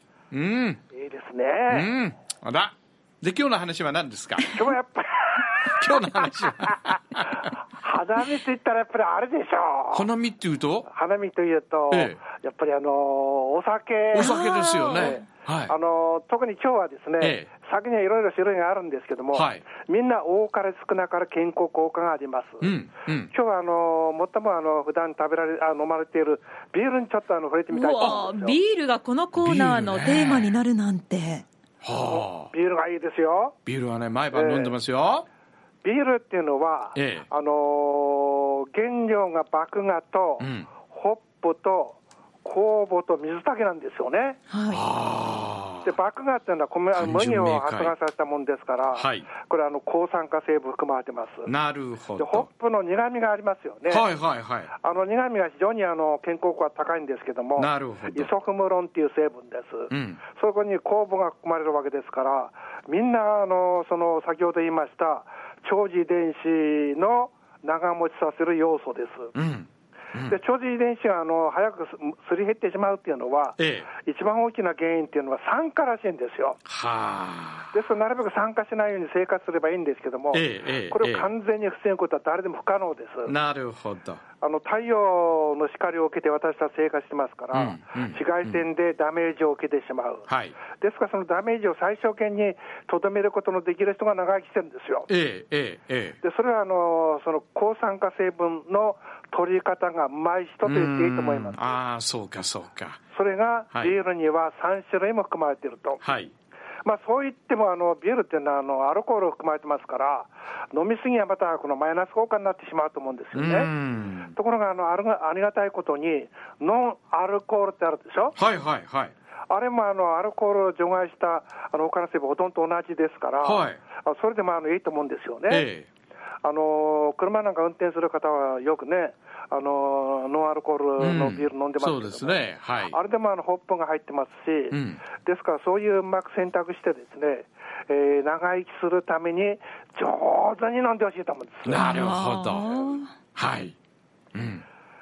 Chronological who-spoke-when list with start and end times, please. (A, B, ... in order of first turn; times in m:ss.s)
0:00.3-0:00.8 A
0:00.9-0:01.9 B
0:01.7-0:04.6 A
0:04.5-0:05.8 B
0:05.6-0:07.5 A
0:07.6-0:10.1 B
0:09.9-0:10.9 A
0:10.9-0:22.7 B
0:11.9-0:12.2 A
0:14.1-0:15.7 A
0:14.2-0:15.2 C
0:17.2-0:17.5 A
0:19.3-0:19.6 A
0:22.6-0:23.3 A
0:23.3-0:28.6 B
0:27.7-0:31.4 C
0:29.4-0:30.6 A
0:31.8-0:32.5 A
0:32.1-0:33.6 B
0:33.6-0:35.2 A
0:34.3-0:34.7 B
0:35.8-0:44.4 B
0:36.9-0:37.3 A
0:40.4-0:40.7 A
0:44.5-0:44.8 C
0:44.7-0:46.0 A
0:45.8-0:51.5 B
0:46.9-0:47.9 A
0:48.9-0:49.3 A
0:51.4-0:52.5 A
0:52.2-0:54.1 B
0:53.9-0:54.7 A
0:54.8-1:09.3 B
0:57.6-0:58.3 A
0:59.9-1:00.2 A
1:09.3-1:10.4 A
1:10.3-1:16.6 B
1:13.6-1:13.9 A
1:16.6-1:17.7 A
1:17.7-1:23.3 B
1:20.3-1:21.3 A
1:23.2-1:24.2 A
1:24.4-1:35.1 B
1:27.5-1:28.6 A
1:30.3-1:30.6 A
1:35.1-1:36.2 A
1:36.2-1:41.8 B
1:40.6-1:43.0 A
1:43.1-1:46.0 B
1:46.0-1:46.3 A
1:46.8-1:53.7 B
1:53.3-1:54.3 A
1:54.3-1:58.4 B
1:58.3-1:59.1 A
1:59.5-2:05.7 B
2:03.4-2:03.8 A
2:05.5-2:05.9 A
2:06.4-2:21.8 B
2:11.0-2:13.0 A
2:14.7-2:15.0 A
2:21.6-2:22.7 A
2:21.8-2:23.1 C
2:23.3-2:23.7 A
2:24.3-2:24.6 A